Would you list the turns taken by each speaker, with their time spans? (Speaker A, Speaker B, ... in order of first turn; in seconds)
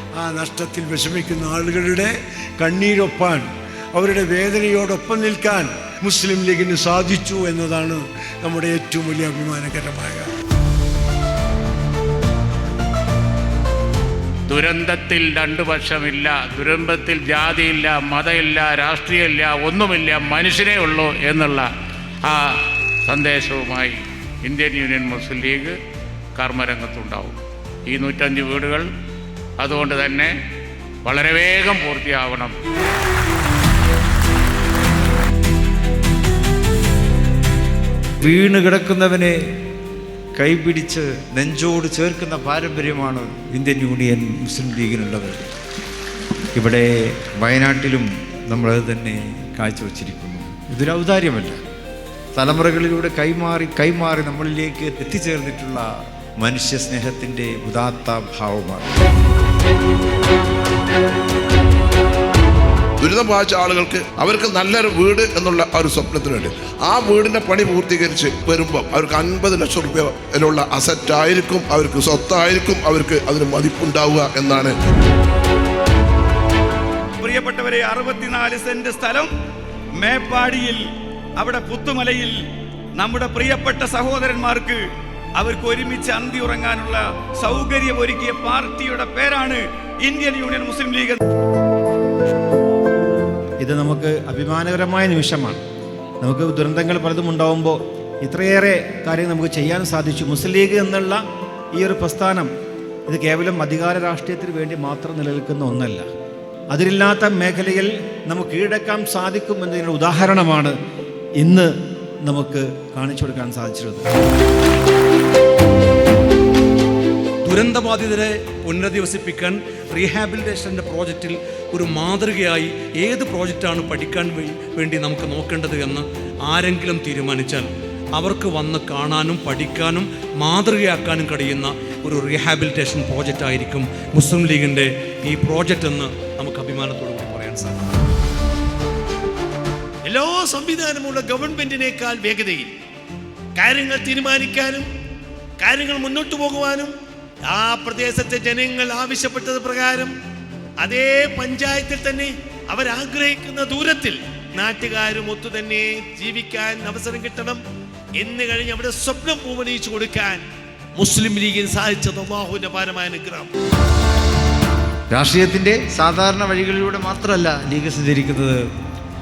Speaker A: 0.2-10.3
Speaker B: 14.5-21.7, 22.2-22.6, 23.1-25.7, 26.4-28.9, 29.6-30.3, 31.0-32.5
Speaker C: 38.2-39.5, 40.3-45.4, 46.5-51.6, 52.3-55.9, 56.4-58.9, 165.1-168.7
Speaker D: 63.0-74.8
Speaker E: 77.2-79.3, 80.0-80.8, 81.4-82.3, 83.0-84.8, 85.4-91.2
Speaker F: 93.6-95.6, 96.2-101.2, 101.7-102.5, 103.1-106.1, 106.7-110.7, 111.4-111.7, 112.2-114.1
Speaker G: 117.4-137.8
Speaker H: 140.1-142.7, 143.6-144.8, 145.6-146.9, 147.5-150.1, 150.8-157.6, 158.2-160.4, 161.0-163.5